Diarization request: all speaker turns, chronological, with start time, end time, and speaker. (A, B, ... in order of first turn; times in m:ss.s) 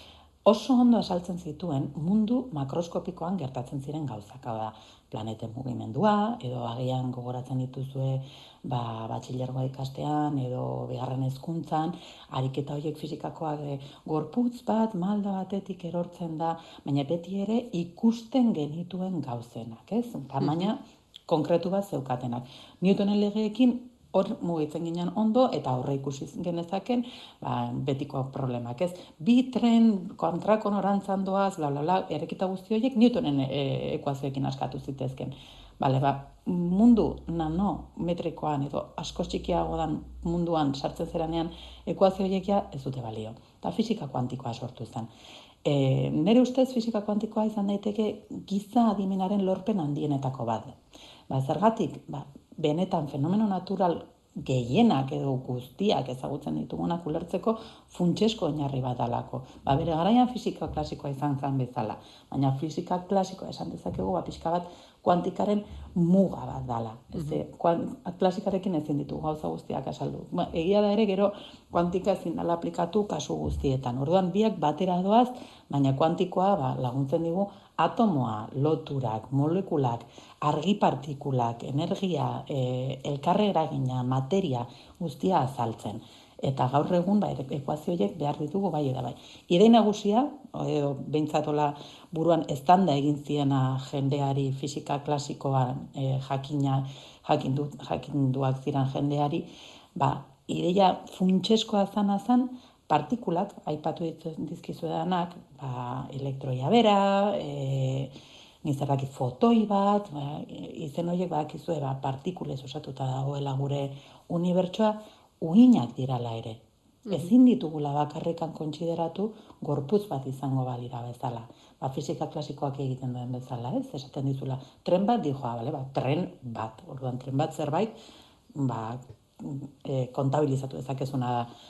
0:00.4-0:45.1 A
0:45.6-0:50.8 A
0:51.3-2:07.9 A
2:08.5-2:11.5 A